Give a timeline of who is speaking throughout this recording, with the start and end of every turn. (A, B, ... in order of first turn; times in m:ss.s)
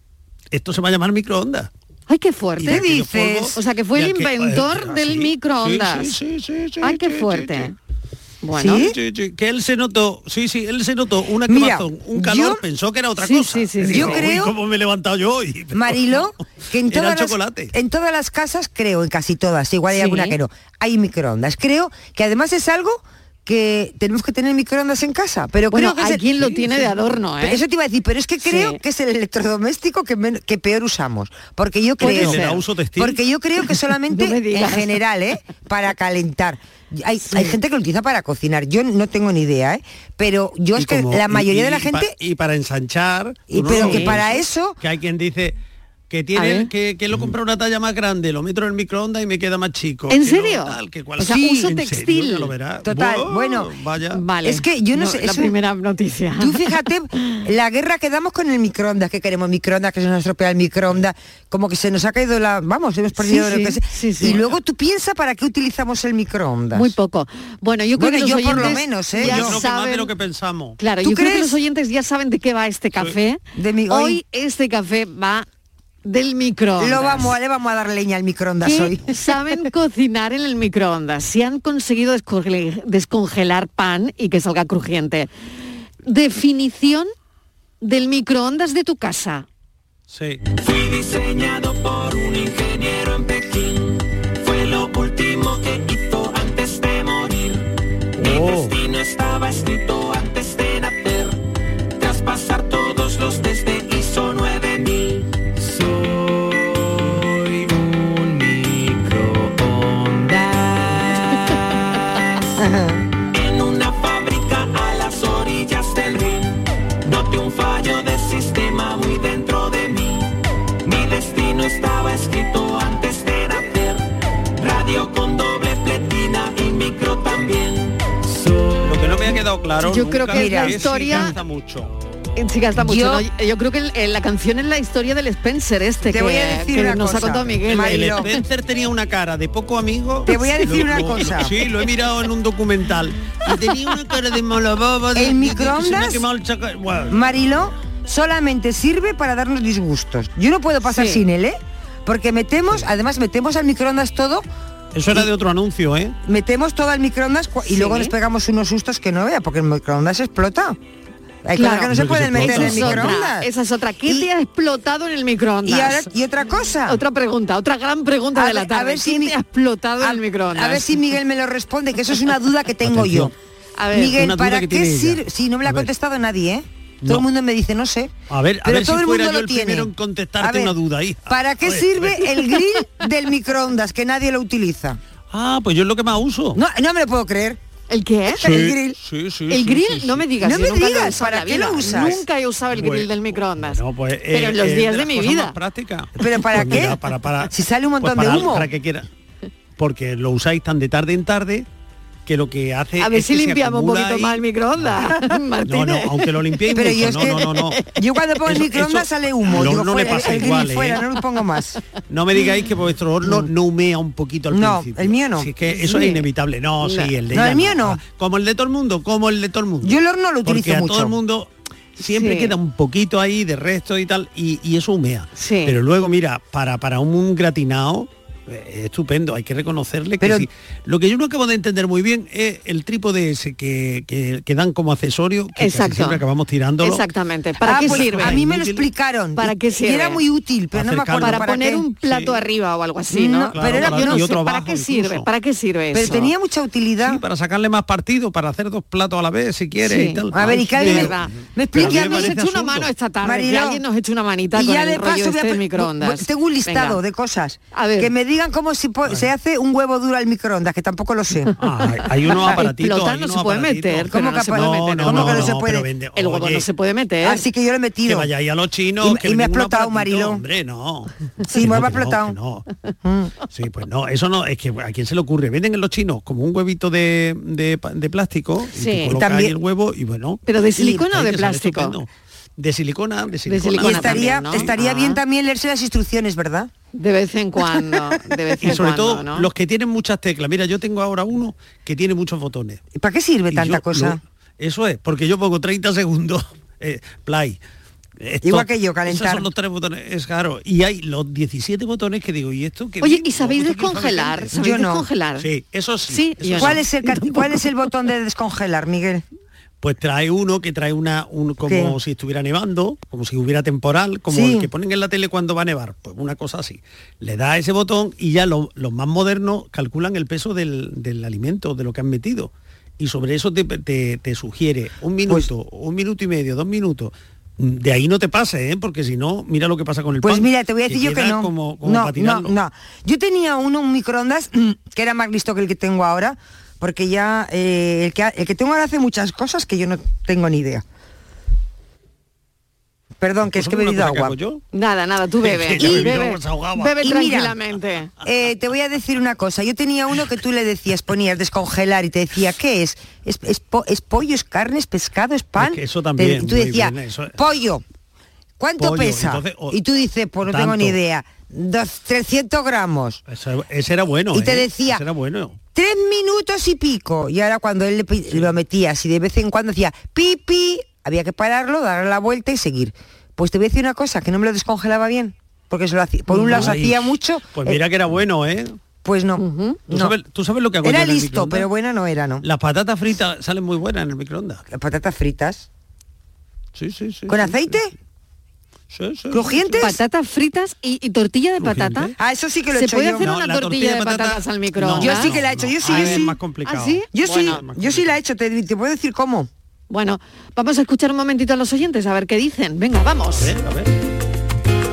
0:00.5-0:01.7 A
0:02.1-0:02.9 B
0:02.6-0:07.7 A
0:02.6-0:03.5 C
0:03.5-0:06.2 B
0:06.8-0:07.7 B
0:08.4-0:08.9 B
0:08.6-0:09.0 C
0:08.8-0:16.3 A
0:11.5-0:12.6 C
0:13.2-0:14.2 B
0:13.9-0:14.5 C
0:15.7-0:26.8 C
0:16.9-0:17.7 A
0:19.9-0:20.4 B
0:25.7-0:27.6 B
0:27.4-0:42.2 C
0:28.4-0:28.8 B
0:32.0-0:32.6 B
0:32.0-0:33.2 A
0:34.1-0:35.0 B
0:40.7-0:45.6 A
0:43.5-0:44.8 C
0:43.7-0:44.2 B
0:46.1-0:54.2 A
0:46.3-0:46.7 B
0:50.1-0:52.5 B
0:51.2-0:51.8 C
0:52.8-0:53.7 C
0:54.1-0:56.7 B
0:54.4-0:55.5 C
0:56.4-1:06.9 C
1:03.2-1:04.4 B
1:06.7-1:10.1 B
1:08.0-1:09.6 C
1:08.5-1:10.8 A
1:10.8-1:15.5 B
1:11.0-1:11.6 C
1:13.5-1:14.2 C
1:16.0-1:17.3 B
1:16.8-1:19.1 C
1:18.6-1:25.3 B
1:26.0-1:27.1 B
1:27.8-1:29.4 B
1:30.1-1:30.4 A
1:30.6-1:37.6 D
1:38.2-1:38.8 A
1:38.2-1:41.4 D
1:42.0-1:45.3 D
1:52.6-1:53.0 C
1:53.3-2:00.3 D
2:00.8-2:04.0 D
2:04.6-2:08.0 D
2:08.8-2:11.9 A
2:09.8-2:11.4 B
2:10.3-2:10.8 C
2:12.4-2:18.4 B
2:12.8-2:13.2 C
2:16.0-2:18.3 C
2:17.7-2:27.2 A
2:20.2-2:21.6 C
2:25.1-2:26.2 C
2:27.1-2:34.4 C
2:30.8-2:31.2 B
2:34.9-2:36.1 A
2:36.2-2:40.8 C
2:37.7-2:38.1 B
2:41.4-2:43.5 C
2:41.5-2:46.1 B
2:41.9-2:43.2 A
2:45.6-2:47.0 C
2:46.8-2:50.9 B
2:48.3-2:49.4 C
2:50.0-2:53.3 C
2:52.8-2:53.3 A
2:53.8-2:54.2 B
2:53.9-2:58.1 C
2:54.0-2:55.9 A
2:58.3-3:02.3 A
2:58.6-3:00.7 C
3:01.3-3:05.0 C
3:05.3-3:06.6 A
3:06.5-3:07.6 C
3:07.9-3:08.7 B
3:08.3-3:09.0 C
3:08.4-3:10.3 A
3:09.5-3:13.8 B
3:10.4-3:12.2 C
3:12.7-3:19.1 A
3:14.3-3:15.5 B
3:16.2-3:18.7 C
3:19.8-3:21.6 A
3:22.2-3:25.1 A
3:23.0-3:26.3 B
3:25.6-3:27.8 A
3:26.7-3:31.8 C
3:27.2-3:27.9 B
3:28.4-3:31.0 A
3:32.1-3:57.0 A
3:34.5-3:35.5 C
3:35.7-3:36.2 B
3:36.8-3:37.1 B
3:37.3-3:38.0 C
3:39.8-3:41.2 C
3:42.0-3:42.5 B
3:45.3-3:45.8 B
3:50.2-3:50.5 C
3:55.6-3:56.2 B
3:56.8-3:58.4 B
3:57.6-3:58.8 A
3:57.6-4:01.8 C
3:59.4-4:00.2 B
4:00.7-4:02.4 A
4:01.2-4:06.3 B
4:03.1-4:04.2 C
4:03.5-4:05.3 A
4:05.9-4:07.2 C
4:07.0-4:12.9 A
4:09.8-4:17.0 B
4:10.3-4:12.3 C
4:13.2-4:13.8 C
4:14.5-4:21.5 C
4:17.7-4:18.1 B
4:21.6-4:26.7 A
4:22.2-4:25.6 B
4:24.1-4:25.9 C
4:26.1-4:27.4 B
4:27.2-4:28.3 C
4:28.0-4:32.6 A
4:29.0-4:30.4 C
4:31.4-4:32.4 C
4:33.0-4:33.3 C
4:33.5-4:44.7 A
4:38.7-4:39.1 B
4:39.1-4:39.5 C
4:40.4-4:42.0 B
4:43.5-4:45.2 B
4:43.8-4:46.7 C
4:46.9-4:49.5 B
4:48.6-4:52.8 A
4:52.9-4:54.2 C
4:53.5-4:57.6 A
4:58.2-5:04.6 A
4:58.4-4:59.5 C
5:03.0-5:05.5 B
5:04.5-5:05.0 C
5:05.4-5:06.9 A
5:06.1-5:07.4 B
5:06.5-5:09.2 C
5:09.8-5:32.5 A
5:11.6-5:12.0 C
5:14.3-5:14.7 C
5:30.2-5:40.8 C
5:43.2-5:44.4 C
5:43.5-5:44.6 A
5:44.7-5:48.1 B
5:45.4-5:47.0 A
5:45.8-5:46.1 C
5:47.0-5:47.6 C
5:48.2-5:57.8 C
5:55.6-5:57.4 A
5:58.6-6:03.2 C
5:58.8-5:59.8 A
6:00.4-6:01.0 A
6:03.3-6:05.6 A
6:04.3-6:05.0 C
6:05.7-6:17.8 C
6:16.3-6:18.8 A
6:19.0-6:20.1 C
6:19.4-6:19.8 B
6:19.9-6:21.7 A
6:20.8-6:22.4 C
6:22.4-6:24.6 A
6:24.7-6:25.7 C
6:26.7-6:27.8 A
6:27.3-6:27.9 C
6:28.9-6:29.9 A
6:29.3-6:30.0 C
6:29.8-6:32.1 B
6:31.6-6:32.2 A
6:32.2-6:33.3 C
6:32.7-6:37.6 B
6:33.2-6:38.2 A
6:35.0-6:36.4 C
6:37.1-6:39.5 C
6:39.9-6:43.5 B
6:43.3-6:43.9 A